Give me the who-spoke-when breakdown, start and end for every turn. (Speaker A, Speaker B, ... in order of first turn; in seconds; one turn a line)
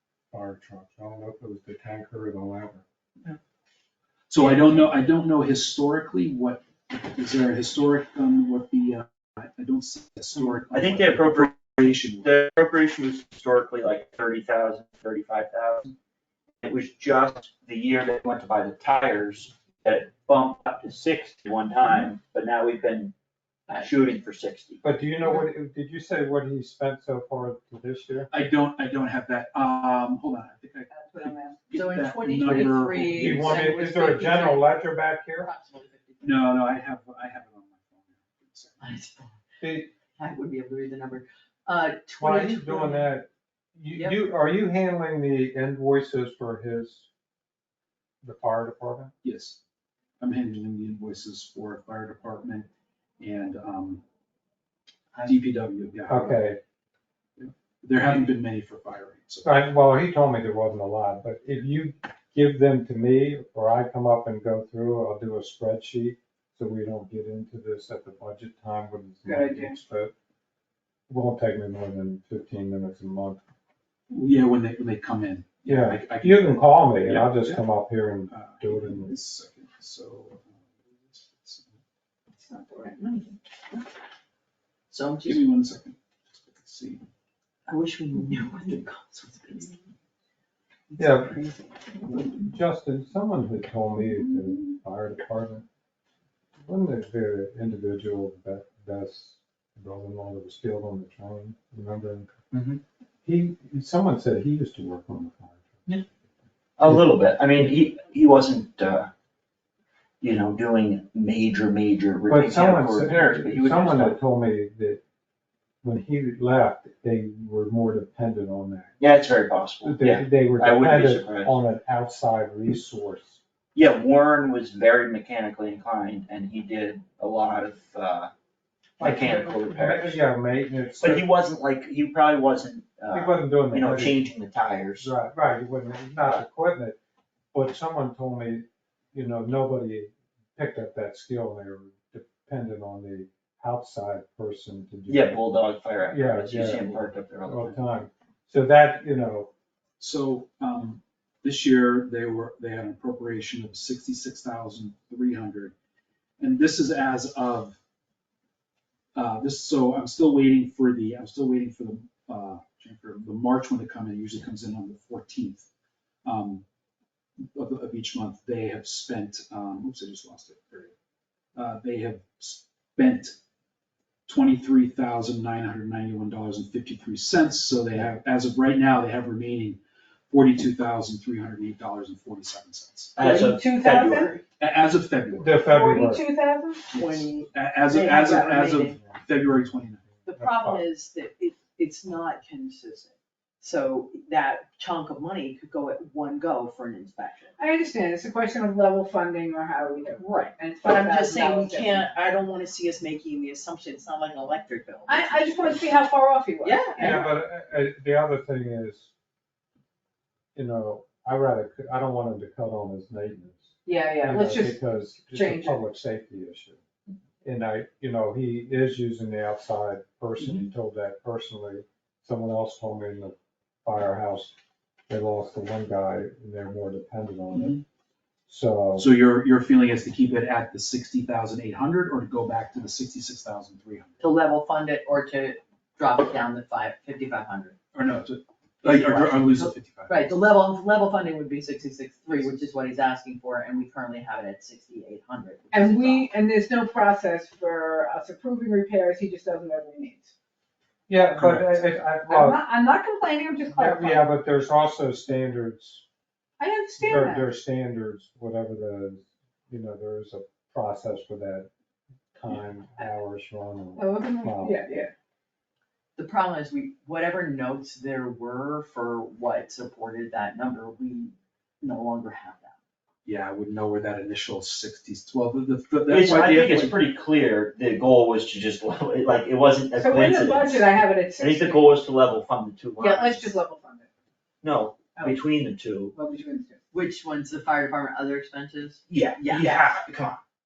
Speaker A: 0.3-2.8
Speaker B: 4.3-12.3
Speaker C: 4.4-4.7
Speaker D: 10.7-15.9
Speaker D: 16.6-23.1
Speaker D: 23.8-24.8
Speaker A: 24.8-28.3
Speaker B: 28.3-33.7
Speaker E: 30.9-31.6
Speaker C: 31.7-34.8
Speaker A: 33.1-35.5
Speaker C: 35.4-36.5
Speaker B: 36.2-38.9
Speaker C: 38.8-39.4
Speaker A: 39.6-39.9
Speaker C: 40.1-43.1
Speaker A: 42.2-47.1
Speaker C: 43.9-44.5
Speaker A: 48.2-49.1
Speaker B: 49.2-49.6
Speaker B: 50.2-52.7
Speaker B: 53.2-54.0
Speaker B: 55.2-56.4
Speaker A: 56.1-56.6
Speaker B: 57.4-59.5
Speaker A: 59.4-70.1
Speaker E: 69.2-69.8
Speaker A: 71.1-73.4
Speaker B: 74.1-77.6
Speaker A: 75.7-79.1
Speaker B: 78.3-81.8
Speaker E: 82.5-83.3
Speaker C: 82.9-83.2
Speaker C: 84.9-85.4
Speaker B: 85.2-87.0
Speaker C: 87.7-89.8
Speaker C: 90.9-92.3
Speaker A: 91.0-91.4
Speaker A: 92.1-95.7
Speaker C: 94.0-94.7
Speaker A: 96.7-102.3
Speaker D: 102.5-102.8
Speaker A: 103.2-105.8
Speaker D: 106.8-109.1
Speaker D: 110.2-114.2
Speaker A: 112.3-115.0
Speaker A: 115.8-119.0
Speaker D: 119.0-121.5
Speaker A: 119.8-123.4
Speaker D: 123.7-128.3
Speaker D: 129.0-130.2
Speaker A: 129.0-131.2
Speaker D: 131.0-135.1
Speaker A: 133.1-134.2
Speaker A: 135.0-137.0
Speaker A: 137.5-145.4
Speaker D: 145.1-147.8
Speaker A: 146.1-149.5
Speaker B: 150.0-155.7
Speaker B: 156.4-157.8
Speaker B: 159.1-165.7
Speaker B: 166.2-166.6
Speaker B: 167.5-170.9
Speaker B: 171.6-173.4
Speaker B: 174.3-179.8
Speaker B: 180.3-183.2
Speaker D: 183.2-184.3
Speaker E: 183.2-184.4
Speaker C: 183.9-184.4
Speaker B: 184.6-185.7
Speaker A: 185.4-186.2
Speaker E: 185.6-187.0
Speaker C: 186.9-189.0
Speaker B: 186.9-190.1
Speaker A: 190.1-190.8
Speaker C: 190.2-197.6
Speaker E: 197.6-202.1
Speaker C: 200.2-205.9
Speaker E: 205.1-207.3
Speaker C: 206.6-207.2
Speaker A: 207.0-209.1
Speaker A: 210.5-216.8
Speaker E: 213.8-215.8
Speaker A: 217.4-224.6
Speaker B: 220.4-220.7
Speaker A: 225.1-227.8
Speaker B: 227.5-227.8
Speaker A: 228.5-229.1
Speaker B: 229.0-234.2
Speaker C: 234.2-237.8
Speaker B: 237.9-240.3
Speaker C: 238.8-246.2
Speaker E: 245.7-250.3
Speaker A: 251.1-252.6
Speaker E: 251.4-254.2
Speaker A: 253.7-256.0
Speaker E: 256.6-257.5
Speaker A: 257.0-261.7
Speaker A: 262.3-264.8
Speaker E: 264.0-265.1
Speaker C: 266.2-272.7
Speaker B: 273.2-276.9
Speaker D: 276.1-283.6
Speaker E: 279.9-281.9
Speaker E: 283.0-284.1
Speaker D: 284.6-286.1
Speaker E: 286.1-286.8
Speaker C: 286.9-290.0
Speaker D: 289.1-290.4